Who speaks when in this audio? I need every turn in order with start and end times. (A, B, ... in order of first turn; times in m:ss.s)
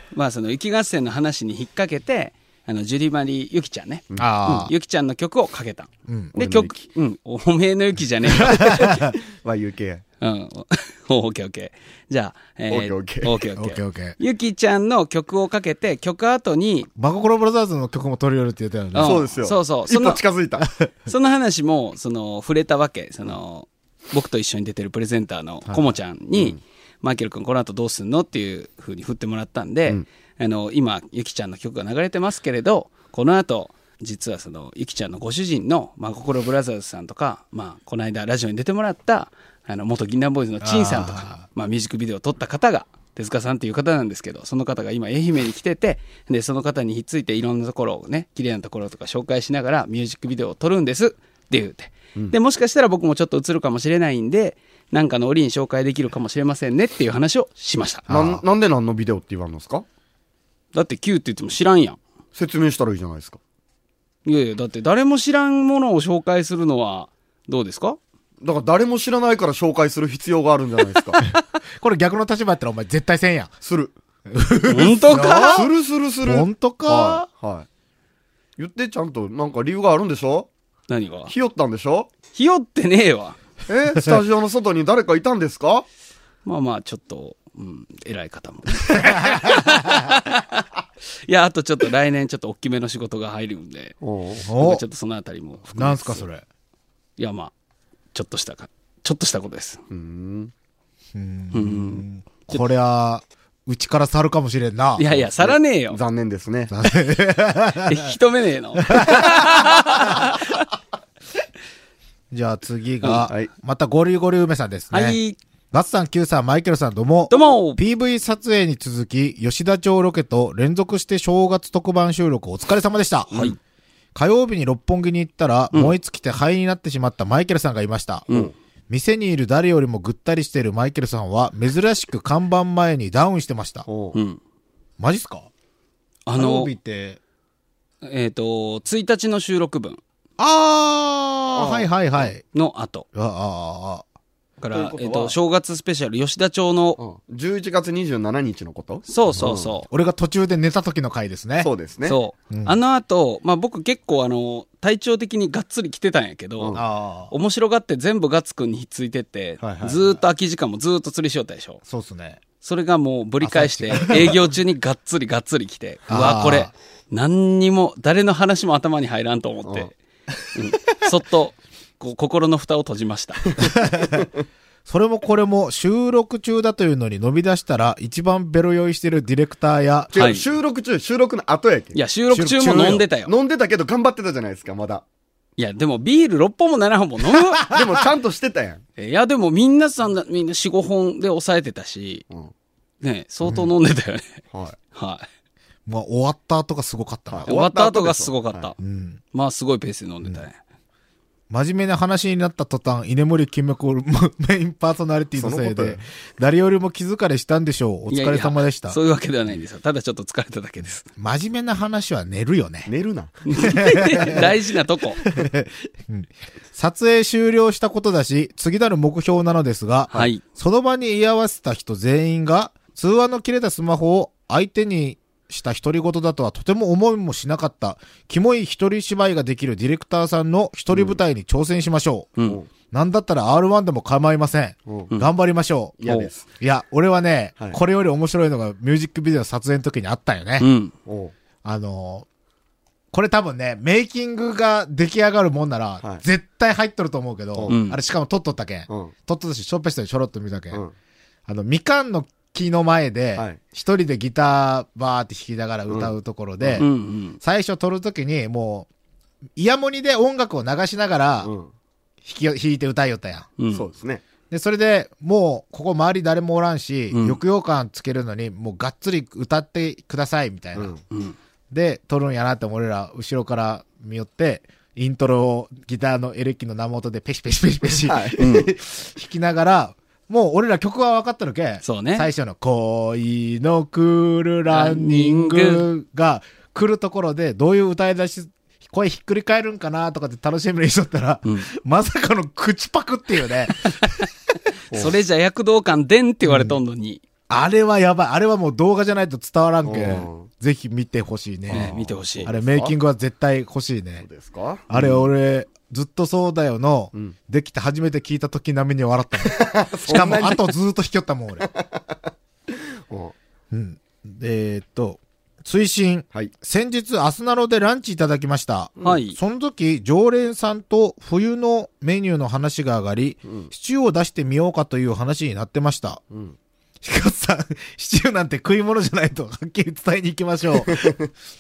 0:00.1-0:09.1 A
0:04.2-0:04.7 B
0:06.1-0:06.4 B
0:06.4-0:06.9 C
0:08.4-0:09.1 B
0:08.8-0:10.0 C
0:10.2-0:16.9 A
0:12.7-0:13.4 C
0:13.6-0:14.2 B
0:17.0-0:19.2 B
0:19.0-0:20.2 A
0:19.0-0:20.7 C
0:21.1-0:58.1 A
0:26.4-0:26.6 C
0:40.6-0:41.4 B
0:58.1-0:58.4 B
0:58.1-0:59.8 C
1:00.7-1:02.0 A
1:02.4-1:03.4 C
1:04.2-1:08.0 A
1:08.4-1:11.2 C
1:11.2-1:13.5 B
1:13.6-1:13.9 C
1:14.3-1:15.7 B
1:14.7-1:15.7 A
1:15.4-1:17.7 C
1:16.2-1:17.3 B
1:18.6-1:20.5 C
1:20.9-1:21.3 A
1:21.3-1:22.1 C
1:22.3-1:23.4 A
1:23.7-1:25.9 C
1:26.4-1:30.6 A
1:28.9-1:30.0 B
1:31.2-1:34.0 A
1:34.0-1:34.4 C
1:34.4-1:34.8 B
1:34.5-1:36.3 A
1:35.8-1:36.4 B
1:37.2-1:37.5 A
1:38.1-1:39.8 A
1:39.9-1:40.5 C
1:41.1-1:45.2 B
1:41.5-1:42.6 A
1:45.0-1:46.0 A
1:45.4-1:46.7 C
1:46.7-1:48.1 B
1:47.8-1:50.6 A
1:48.9-1:50.2 B
1:52.3-1:55.2 B
1:53.0-1:53.3 A
1:54.9-1:55.4 A
1:55.7-2:03.4 B
1:57.3-1:57.8 A
2:03.3-2:03.6 A
2:04.2-2:08.3 B
2:08.9-2:13.9 B
2:13.9-2:14.2 C
2:14.1-2:14.4 A
2:15.0-2:15.5 B
2:16.3-2:16.7 A
2:16.3-2:17.2 B
2:18.0-2:20.0 A
2:20.4-2:22.4 B
2:21.6-2:22.3 C
2:22.5-2:23.1 A
2:23.2-2:24.0 B
2:24.6-2:27.0 A
2:24.7-2:25.4 C
2:27.0-2:29.7 C
2:29.1-2:29.9 A
2:29.9-2:31.7 B
2:31.6-2:32.2 C
2:32.0-2:36.8 A
2:32.5-2:32.8 B
2:36.7-2:37.3 B
2:37.3-2:41.8 A
2:39.6-2:40.1 C
2:41.9-2:42.4 B
2:42.6-2:49.9 A
2:43.4-2:44.4 B
2:46.1-2:46.7 B
2:50.5-2:53.6 A
2:53.6-2:54.3 C
2:53.8-2:54.2 B
2:54.9-3:00.1 B
3:00.1-3:02.0 C
3:00.1-3:00.4 A
3:01.9-3:03.3 A
3:02.3-3:03.1 B
3:02.6-3:05.0 C
3:05.6-3:07.6 A
3:07.6-3:07.9 B
3:07.7-3:08.8 C
3:09.0-3:12.2 A
3:13.0-3:14.4 A
3:14.5-3:14.8 C
3:14.9-3:15.3 A
3:15.9-3:17.5 B
3:17.3-3:18.7 C
3:17.5-3:18.8 A
3:18.8-3:19.2 B
3:19.3-3:20.6 A
3:21.5-3:29.0 B
3:25.4-3:26.0 C
3:28.1-3:31.1 A
3:31.2-3:32.9 B
3:32.9-3:34.5 C
3:33.5-3:35.2 A
3:33.8-3:34.4 B
3:35.3-3:52.4 B
3:40.1-3:40.4 A
3:50.9-3:51.2 C
3:52.9-3:56.0 B
3:54.9-3:55.1 C
3:56.0-3:56.5 C
3:56.6-4:00.7 B
4:00.6-4:00.9 A
4:01.1-4:01.3 C
4:01.6-4:02.3 B
4:03.1-4:10.8 B
4:07.7-4:08.0 A
4:08.9-4:09.1 C
4:11.5-4:16.9 B
4:15.9-4:16.8 C
4:16.8-4:17.4 A
4:17.4-4:18.9 B
4:19.6-4:21.5 B
4:21.4-4:21.7 C
4:22.2-4:23.5 B
4:23.6-4:23.8 A
4:23.7-4:24.2 C
4:24.5-4:30.9 B
4:27.1-4:27.4 A
4:30.8-4:31.0 C
4:31.1-4:31.4 A
4:31.7-4:54.3 B
4:37.9-4:38.7 C
4:38.4-4:38.7 A
4:41.8-4:42.3 A
4:44.7-4:45.9 A
4:54.9-4:57.2 A
4:56.4-4:56.8 B
4:57.5-5:01.9 B
4:59.8-5:00.5 C
5:01.7-5:03.0 C
5:01.7-5:02.5 A
5:02.4-5:04.3 B
5:04.2-5:05.3 C
5:04.9-5:11.7 B
5:09.4-5:10.7 C
5:11.6-5:12.0 C
5:13.7-5:26.2 B
5:19.0-5:19.4 A
5:23.4-5:23.7 C
5:26.3-5:26.6 C
5:27.0-5:31.2 B
5:30.9-5:31.3 C